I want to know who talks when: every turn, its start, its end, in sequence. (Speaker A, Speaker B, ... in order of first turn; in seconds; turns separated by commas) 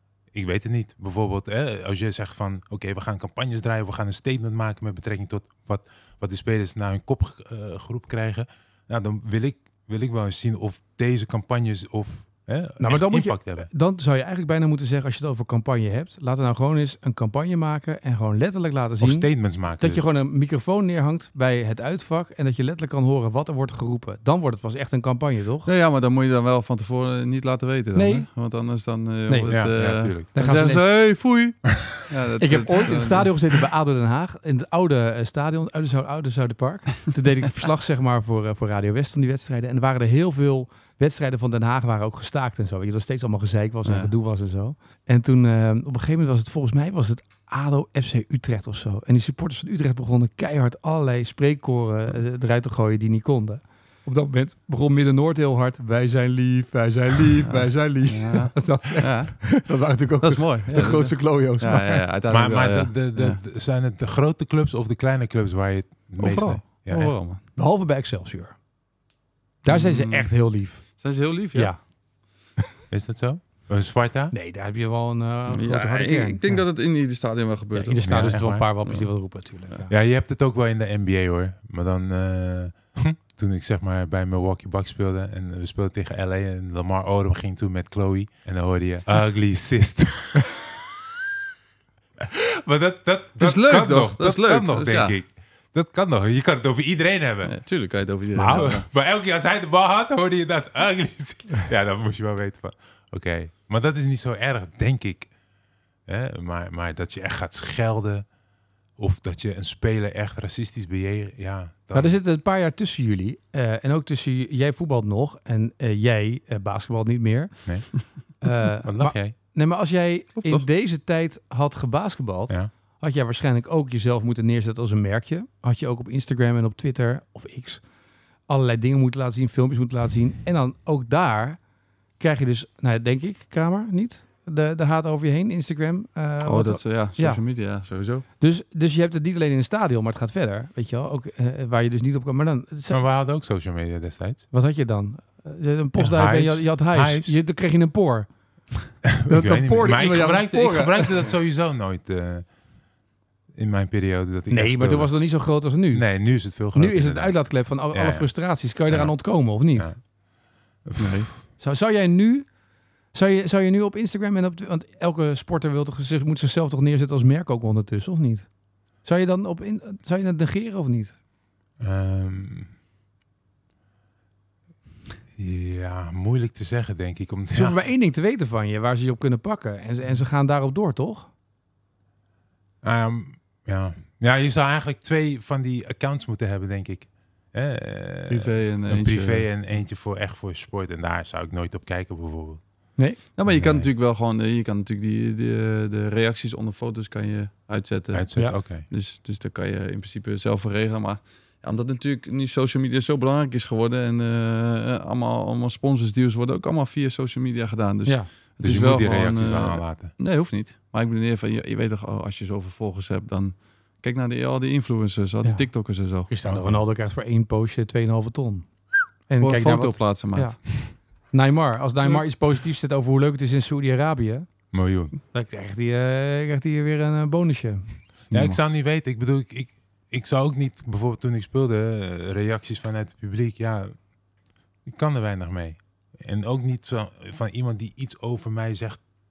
Speaker A: 0.3-13.7, Speaker B: 12.8-25.7, Speaker A: 19.0-20.0, Speaker C: 25.7-33.5, Speaker B: 27.9-28.3, Speaker B: 29.3-30.9, Speaker A: 29.5-30.3, Speaker B: 32.4-62.0, Speaker C: 43.9-44.1, Speaker C: 57.5-59.6, Speaker C: 60.2-63.4, Speaker A: 62.3-67.2, Speaker C: 66.2-67.4, Speaker B: 67.6-68.6, Speaker B: 69.6-70.9, Speaker C: 69.7-70.3, Speaker C: 71.0-71.7, Speaker B: 71.5-71.8, Speaker A: 72.9-74.3, Speaker B: 74.3-76.6, Speaker C: 75.5-78.0, Speaker B: 77.7-79.9, Speaker A: 78.0-78.7, Speaker A: 79.9-90.8, Speaker A: 92.2-97.6, Speaker C: 93.4-95.2, Speaker C: 97.5-98.9, Speaker B: 98.3-98.8, Speaker A: 98.5-105.3, Speaker A: 106.1-108.3, Speaker A: 109.0-112.2, Speaker B: 111.9-127.8, Speaker A: 118.8-119.3, Speaker C: 120.4-120.7, Speaker B: 128.5-131.6, Speaker B: 132.2-137.4, Speaker C: 136.4-138.2, Speaker B: 138.4-143.0, Speaker A: 142.9-144.5, Speaker B: 144.5-148.3, Speaker A: 146.0-147.4, Speaker A: 149.1-152.5, Speaker B: 149.2-151.3, Speaker A: 153.6-155.1, Speaker B: 154.5-159.9, Speaker A: 155.9-158.3, Speaker A: 158.9-160.0, Speaker A: 160.8-161.2, Speaker C: 161.0-161.3, Speaker B: 161.6-162.5, Speaker B: 163.1-168.5, Speaker B: 169.0-171.2, Speaker A: 171.8-172.7, Speaker A: 175.4-177.8, Speaker B: 177.5-181.3, Speaker A: 182.8-192.6, Speaker C: 188.3-189.5, Speaker C: 193.3-216.3, Speaker A: 193.5-193.9, Speaker A: 198.1-198.9, Speaker A: 208.6-210.1, Speaker B: 215.4-215.7, Speaker B: 216.3-218.7, Speaker A: 216.4-216.8, Speaker B: 219.3-224.5, Speaker C: 219.4-220.6, Speaker A: 224.7-225.2, Speaker B: 225.3-228.0, Speaker C: 228.3-228.6, Speaker A: 228.3-233.9, Speaker A: 234.8-239.0